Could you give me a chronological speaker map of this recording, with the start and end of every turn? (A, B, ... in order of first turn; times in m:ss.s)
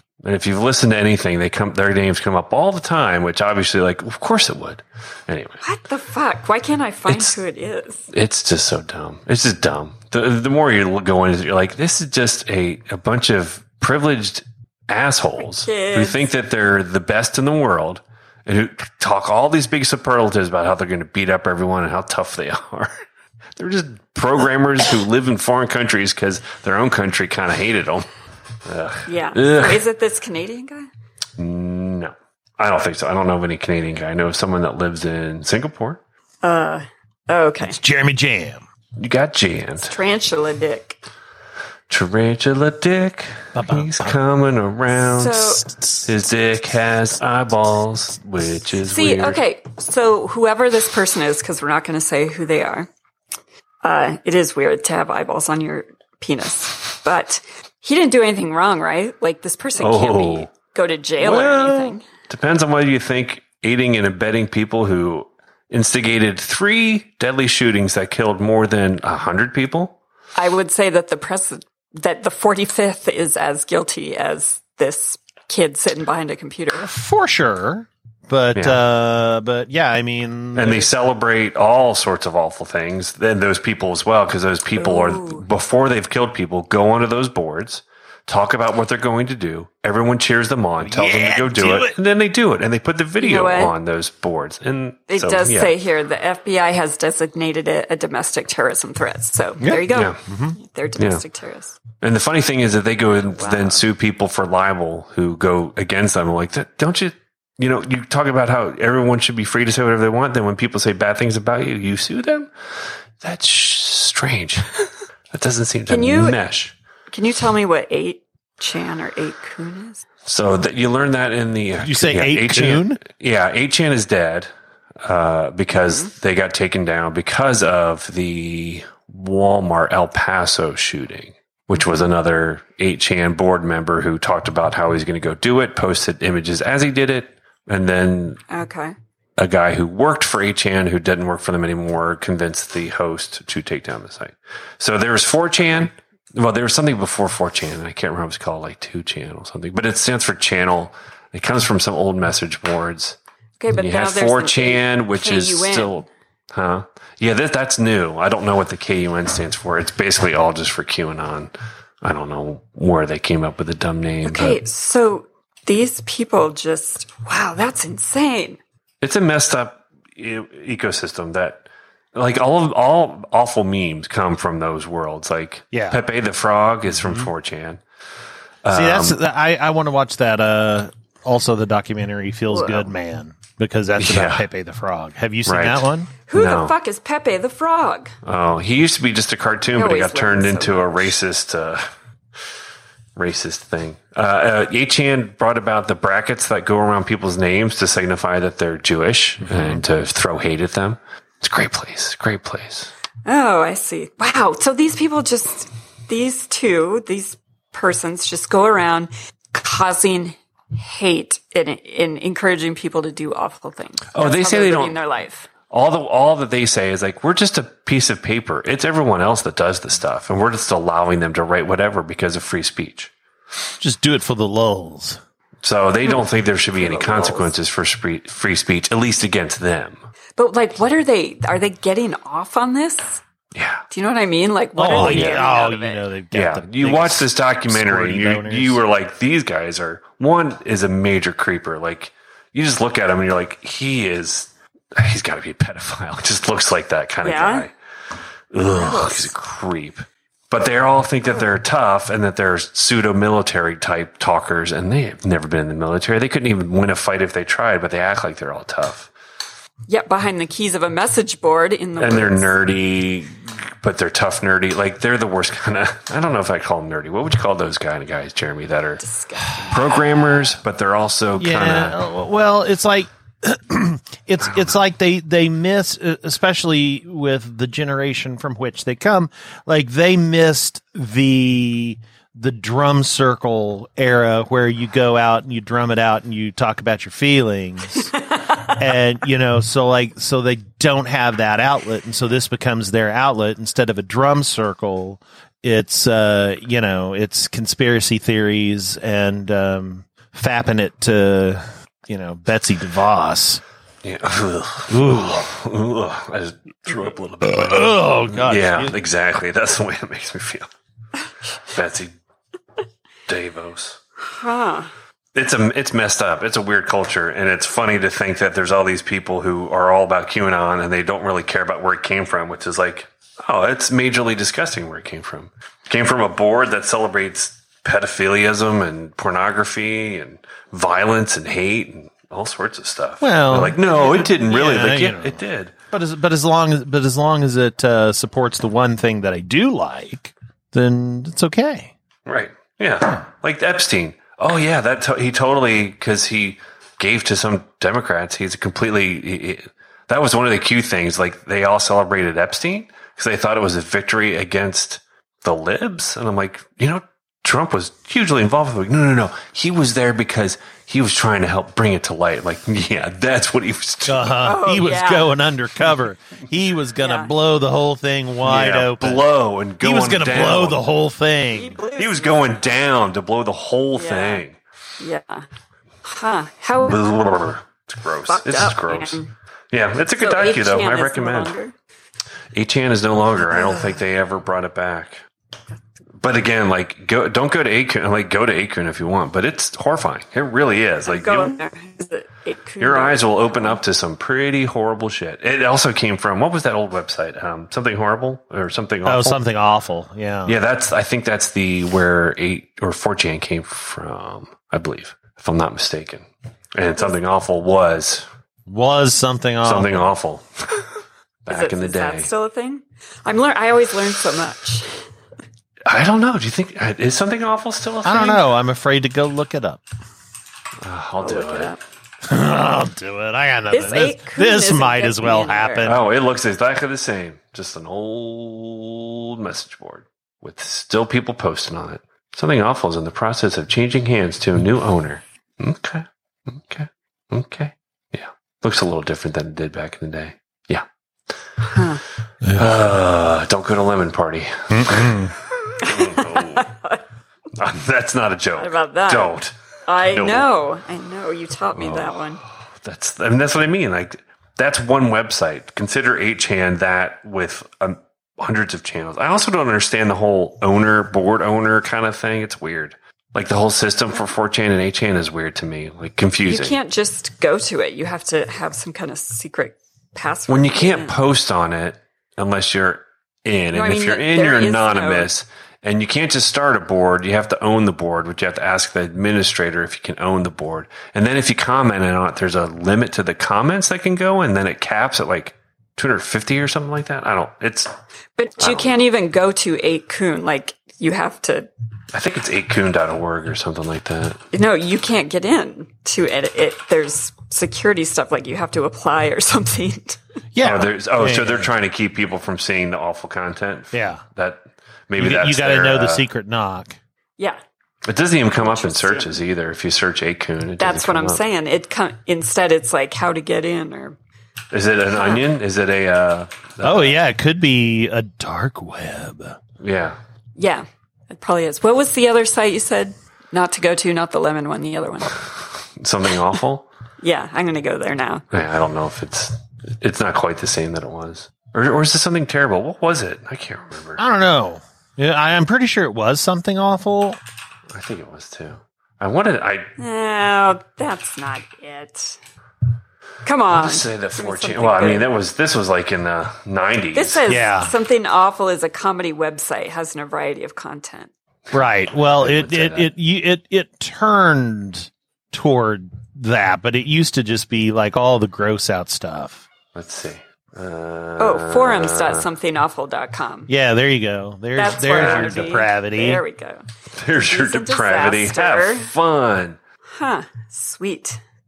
0:00.2-0:05.6 A
0:05.6-0:08.1 B
0:07.1-0:07.4 A
0:08.1-0:23.0 A
0:15.6-0:16.2 B
0:23.6-0:28.1 A
0:28.6-0:29.8 A
0:29.0-0:30.9 B
0:31.4-0:36.0 A
0:36.4-0:37.8 B
0:37.6-0:38.6 C
0:39.0-0:39.9 A
0:39.8-0:41.0 B
0:41.9-0:49.4 A
0:43.5-0:44.2 C
0:44.9-0:45.6 B
0:48.8-0:52.9 B
0:53.8-1:02.0 B
0:59.8-1:00.5 A
1:01.2-1:10.0 A
1:10.4-1:16.9 B
1:16.8-1:20.9 C
1:18.5-1:18.8 A
1:20.5-1:35.7 A
1:24.8-1:25.4 B
1:30.8-1:31.9 C
1:33.2-1:33.7 B
1:35.1-1:41.8 B
1:39.6-1:40.6 C
1:39.9-1:40.2 A
1:41.0-1:41.2 A
1:42.0-1:52.5 A
1:43.2-1:43.8 B
1:53.2-1:54.8 A
1:55.3-1:56.7 A
1:55.9-1:56.4 B
1:57.1-2:00.0 B
2:00.2-2:04.5 A
2:01.8-2:03.0 C
2:05.0-2:18.4 A
2:05.8-2:06.1 B
2:18.5-2:18.9 B
2:19.4-2:33.2 A
2:33.6-2:36.0 B
2:33.7-2:44.6 A
2:44.2-2:48.6 B
2:49.0-2:57.8 A
2:55.7-2:56.0 C
2:56.9-2:57.3 C
2:58.6-2:59.2 A
2:58.7-3:06.1 C
3:02.5-3:02.9 B
3:04.0-3:04.4 A
3:05.4-3:06.7 A
3:06.3-3:08.1 B
3:08.2-3:11.8 A
3:09.7-3:11.1 B
3:13.2-3:22.9 A
3:19.4-3:19.8 C
3:23.2-3:35.5 B
3:34.1-3:35.0 A
3:35.7-3:43.1 A
3:43.8-3:45.2 C
3:45.6-3:50.0 A
3:46.8-3:47.5 B
3:50.4-3:53.2 B
3:53.5-3:53.8 A
3:53.9-3:56.0 B
3:54.8-3:58.8 C
3:54.9-3:55.5 A
3:56.3-4:07.7 A
4:07.2-4:07.7 B
4:08.5-4:19.1 A
4:08.7-4:09.3 B
4:19.9-4:22.5 B
4:22.0-4:29.0 A
4:29.0-4:29.9 B
4:29.7-4:32.0 A
4:31.4-5:03.6 C
4:34.4-4:34.7 A
5:04.0-5:10.7 A
5:04.9-5:05.4 C
5:07.4-5:08.9 C
5:11.7-5:12.1 A
5:13.3-5:14.0 A
5:14.2-5:14.9 B
5:15.3-5:35.7 A
5:33.2-5:35.4 C
5:35.9-5:41.9 C
5:42.2-6:04.3 A
6:04.0-6:09.3 C
6:04.4-6:05.4 B
6:07.0-6:07.3 B
6:08.4-6:10.8 A
6:09.8-6:11.8 C
6:11.5-6:12.5 B
6:12.0-6:14.6 A
6:14.0-6:14.4 B
6:15.0-6:15.4 B
6:16.0-6:17.0 B
6:16.8-6:21.5 A
6:18.3-6:19.3 B
6:20.2-6:21.7 B
6:22.5-6:25.2 A
6:26.2-6:31.6 A
6:31.0-6:33.8 B
6:32.8-6:39.4 A
6:39.0-6:40.5 C
6:40.4-6:48.3 A
6:48.7-6:50.1 C
6:49.6-6:50.8 A
6:51.4-6:52.3 A
6:51.5-6:55.1 B
6:55.9-6:58.5 A
6:58.0-6:59.8 C
7:00.8-7:01.7 A
7:01.2-7:01.8 B
7:02.2-7:06.0 C
7:03.7-7:06.0 B
7:05.8-7:20.8 A
7:21.7-7:22.0 B
7:22.4-7:22.7 C
7:22.5-7:26.7 A
7:24.7-7:25.3 C
7:25.7-7:27.0 B
7:27.6-7:29.5 A
7:28.6-7:32.4 B
7:30.1-7:30.5 A
7:31.7-7:46.8 A
7:46.5-7:51.2 B
7:50.5-8:07.9 A
7:53.7-7:55.3 B
8:08.4-8:11.7 B
8:08.6-8:08.9 A
8:12.1-8:14.4 A
8:14.5-8:20.2 B
8:20.5-8:21.7 C
8:20.6-8:26.3 A
8:23.9-8:24.2 C
8:25.2-8:27.0 C
8:28.0-8:31.4 A
8:28.5-8:29.4 B
8:30.8-8:34.2 B
8:34.7-8:37.2 A
8:35.1-8:35.4 B
8:36.8-8:39.6 C
8:39.8-8:40.2 A
8:40.6-8:45.4 B
8:46.0-8:46.9 A
8:47.2-8:48.4 B
8:48.5-8:54.2 A
8:54.2-8:57.4 C
8:57.9-8:59.9 A
9:00.0-9:02.4 B
9:03.4-9:05.3 B
9:03.7-9:07.4 A
9:07.1-9:11.3 B
9:07.5-9:07.9 C
9:11.7-9:13.1 A
9:11.7-9:19.6 C
9:19.9-9:22.5 A
9:21.4-9:23.7 B
9:23.7-9:26.4 C
9:24.7-9:29.1 B
9:25.0-9:25.6 A
9:27.1-9:29.8 A
9:30.1-9:31.4 B